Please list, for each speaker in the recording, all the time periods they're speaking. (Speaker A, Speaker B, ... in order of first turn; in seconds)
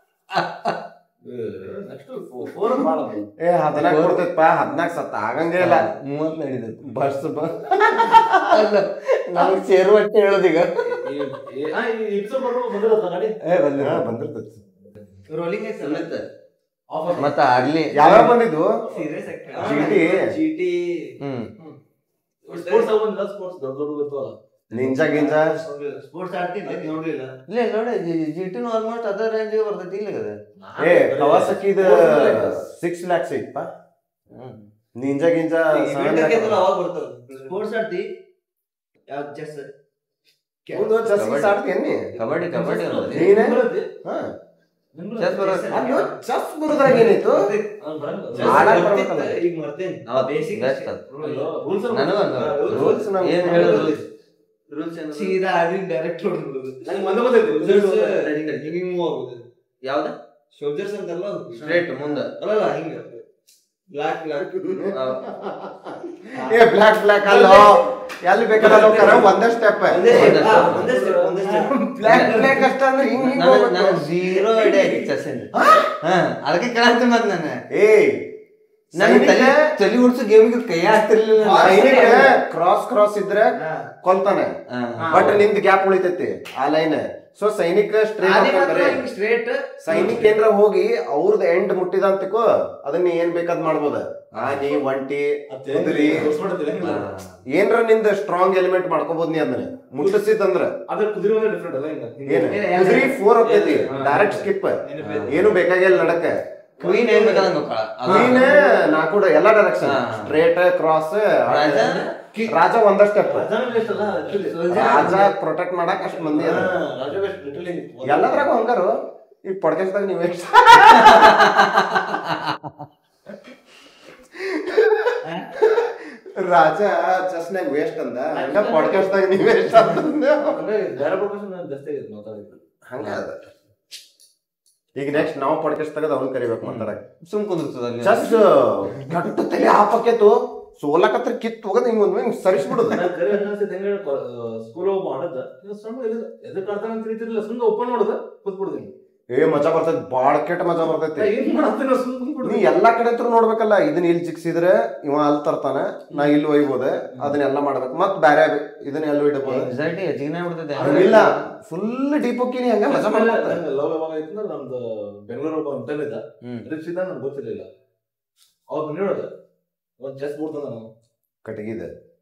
Speaker A: 0.3-0.8, 3.7-4.2, 5.6-7.6, 8.5-11.0, 13.5-14.1, 15.8-16.2, 17.2-18.1, 21.2-21.5, 27.5-30.4, 41.1-41.6, 42.2-43.4, 45.2-45.9, 50.1-51.0, 51.9-54.0, 54.7-55.4, 58.1-58.7, 59.8-60.1, 61.6-62.3, 64.9-65.2, 70.1-70.9, 72.0-72.6, 73.2-75.5, 76.0-77.6, 79.0-82.2, 84.7-85.4, 96.8-97.3, 105.0-105.5, 106.8-108.5, 109.8-110.3, 111.5-112.1, 121.0-122.8, 136.7-138.3, 159.5-161.5
Speaker B: 1.2-3.3, 10.8-13.4, 16.9-18.3, 22.5-25.0, 30.6-32.6, 42.2-43.9, 45.0-45.8, 47.8-48.8, 51.2-54.1, 56.8-58.2, 67.3-67.8, 68.6-69.3, 70.0-71.6, 89.9-90.3, 95.5-97.1, 100.9-102.6, 103.4-105.6, 106.8-107.5, 108.1-108.8, 113.2-115.0, 116.2-118.5, 128.3-129.1, 130.6-132.6, 142.8-148.9, 151.2-152.7, 160.8-161.2, 162.9-167.7, 168.7-169.3, 170.0-170.9
Speaker C: 3.4-5.9, 7.7-8.7, 13.8-14.5, 17.9-18.7, 19.6-20.3, 24.7-25.6, 30.8-33.7, 35.0-36.7, 40.7-42.1, 43.1-44.3, 45.7-47.5, 48.4-49.4, 52.6-54.0, 64.5-70.1, 71.4-74.1, 75.5-75.9, 77.7-78.2, 79.0-79.6, 81.5-84.5, 85.1-89.0, 89.8-96.4, 97.5-100.7, 102.3-106.4, 108.1-113.5, 114.7-116.8, 118.0-119.0, 119.5-121.7, 124.3-130.7, 132.9-133.4, 135.0-137.0, 138.0-143.1, 149.3-151.3, 152.4-159.7, 160.8-163.6, 171.4-171.9
Speaker D: 15.3-16.1, 18.9-21.2, 22.5-22.9, 25.1-27.4, 35.9-38.1, 39.1-39.7, 45.3-46.2, 46.8-47.7, 48.3-51.5, 55.1-56.9, 57.6-59.4, 60.5-61.7, 62.4-63.2, 63.9-64.5, 68.6-69.3, 69.9-72.7, 74.5-75.1, 81.4-82.3, 83.6-83.9, 88.2-90.2, 102.4-103.2, 114.3-115.3